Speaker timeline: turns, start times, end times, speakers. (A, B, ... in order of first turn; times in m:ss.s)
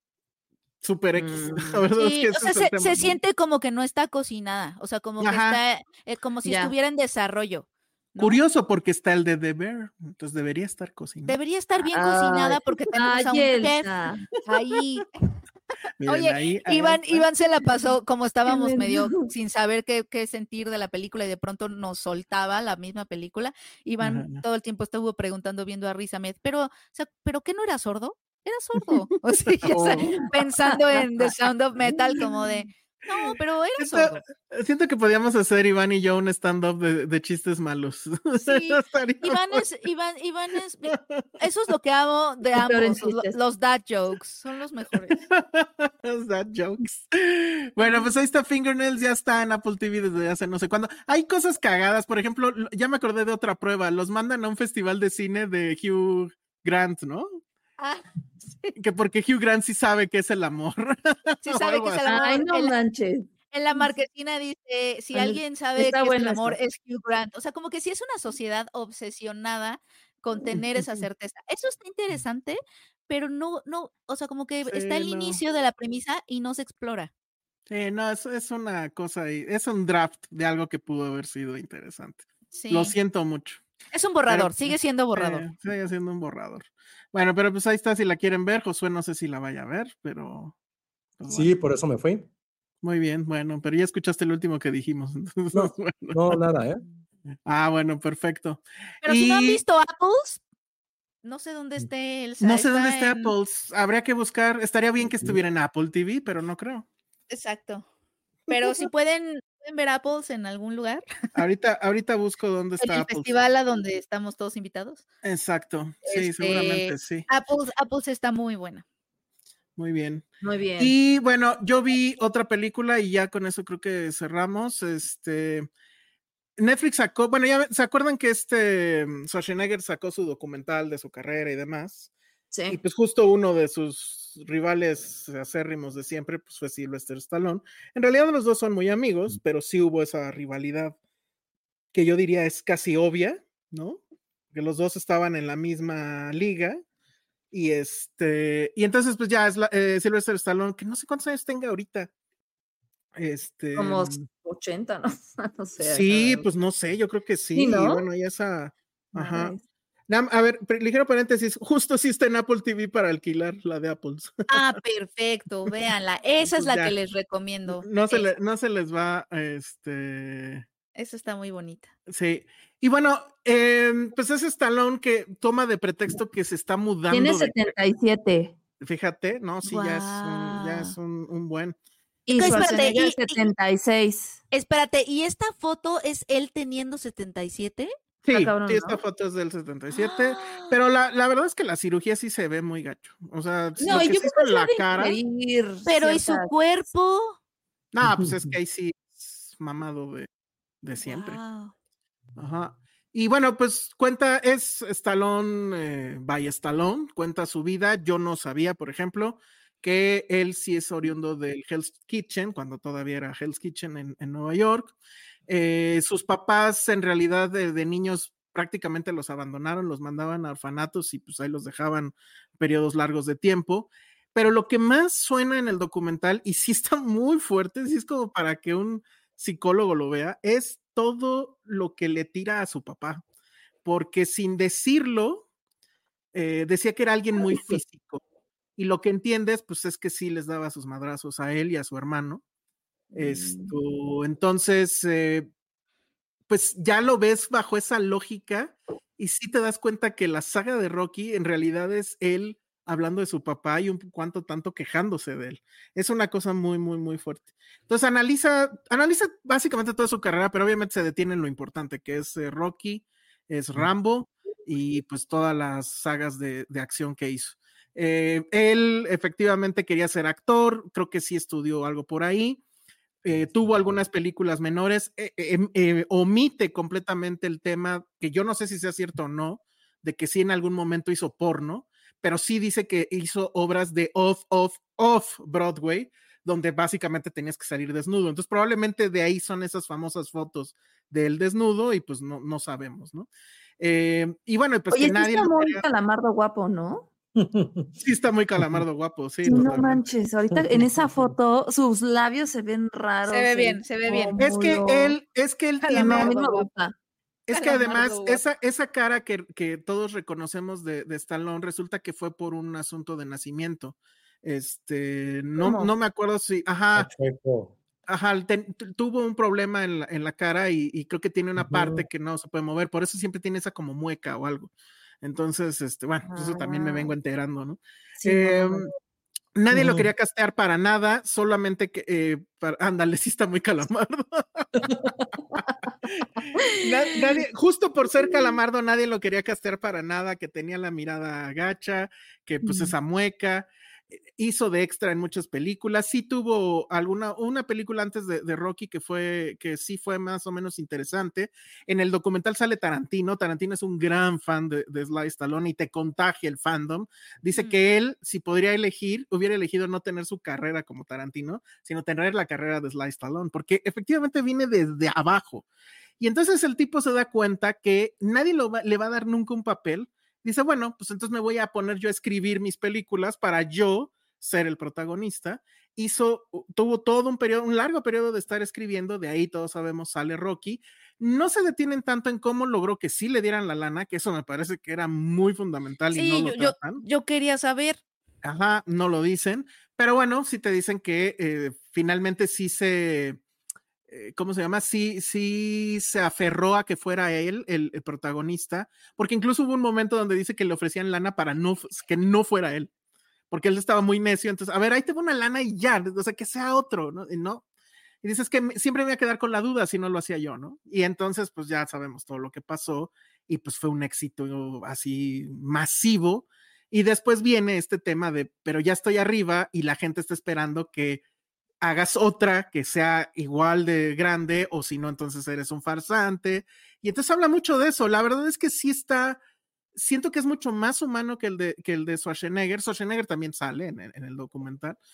0:00.8-0:03.2 A
0:01.1-0:01.8 B
0:02.0-0:08.4 C
0:05.2-0:05.6 A
0:06.4-0:06.7 B
0:08.2-0:11.4 A
0:11.3-0:13.9 C
0:11.9-0:14.3 B
0:14.4-0:15.1 C
0:16.0-0:17.3 A
0:16.0-0:34.2 C
0:18.5-0:19.3 B
0:24.0-0:24.4 A
0:29.6-0:30.2 A
0:29.7-0:31.0 B
0:33.8-0:39.6 A
0:38.4-0:45.2 C
0:40.9-0:41.2 A
0:42.5-0:43.4 B
0:45.1-0:57.4 A
0:47.8-0:48.1 C
0:57.8-0:58.7 C
0:58.8-1:02.0 A
1:01.4-1:02.7 C
1:02.1-1:03.9 B
1:03.5-1:17.1 C
1:05.1-1:06.6 B
1:14.7-1:15.4 A
1:17.7-1:23.6 A
1:22.5-1:22.9 C
1:23.9-1:25.5 C
1:24.3-1:30.5 A
1:31.2-1:31.5 A
1:31.3-1:32.3 D
1:32.8-1:36.2 A
1:35.5-1:36.8 D
1:37.4-1:39.6 A
1:39.0-1:40.4 C
1:41.2-1:43.4 C
1:42.4-1:46.8 A
1:45.0-1:45.4 D
1:47.3-1:47.8 C
1:48.5-1:48.8 A
1:48.5-1:51.0 C
1:51.4-1:53.3 A
1:52.8-1:55.0 C
1:55.2-1:57.2 A
1:56.0-1:58.8 C
1:59.8-2:00.2 A
2:00.4-2:00.9 B
2:00.8-2:05.7 A
2:06.6-2:12.1 A
2:12.5-2:12.8 B
2:12.7-2:21.0 A
2:21.9-2:26.8 A
2:27.5-2:32.1 A
2:33.2-2:34.2 A
2:33.7-2:36.4 B
2:35.8-2:39.5 A
2:37.5-2:38.0 B
2:39.1-2:39.6 B
2:40.1-2:44.5 A
2:44.5-2:48.3 C
2:46.4-2:46.9 A
2:47.7-2:50.6 A
2:50.9-2:51.9 C
2:52.1-2:57.6 A
2:57.1-2:58.5 B
2:58.8-3:01.8 A
2:59.6-3:00.9 C
3:02.2-3:04.4 B
3:02.3-3:03.4 C
3:04.5-3:07.9 C
3:08.2-3:15.2 A
3:08.3-3:09.0 B
3:09.9-3:10.7 C
3:13.8-3:16.5 B
3:15.9-3:17.4 C
3:17.9-3:20.3 A
3:18.0-3:18.5 D
3:20.8-3:21.4 A
3:21.0-3:21.7 C
3:22.4-3:34.9 A
3:35.5-3:53.2 A
3:53.8-3:55.4 A
3:56.3-3:58.2 A
3:57.5-3:57.8 B
3:58.8-4:02.4 A
4:03.1-4:03.7 B
4:03.1-4:05.5 A
4:06.5-4:32.6 A
4:33.2-4:53.3 A
4:53.8-4:55.8 A
4:54.9-4:57.1 B
4:57.4-4:57.9 D
4:58.0-5:00.0 A
4:58.6-4:58.8 D
4:59.4-5:05.2 B
5:00.5-5:01.1 D
5:03.2-5:04.3 C
5:04.4-5:06.3 A
5:05.8-5:06.7 C
5:05.9-5:06.9 B
5:07.5-5:17.1 A
5:07.5-5:08.4 C
5:15.6-5:15.9 B
5:16.9-5:17.7 D
5:18.1-5:24.7 A
5:21.6-5:22.1 D
5:25.2-5:28.9 A
5:26.2-5:27.1 B
5:28.2-5:28.9 B
5:29.5-5:34.7 A
5:29.7-5:30.1 D
5:36.2-5:43.7 A
5:36.5-5:37.2 B
5:42.6-5:42.9 B
5:44.3-6:05.6 A
6:06.2-6:27.0 A
6:26.1-6:28.0 C
6:28.4-6:33.4 A
6:34.1-6:42.9 A
6:43.5-6:47.6 A
6:48.2-7:01.2 A
7:01.8-7:09.4 A
7:09.9-7:15.0 A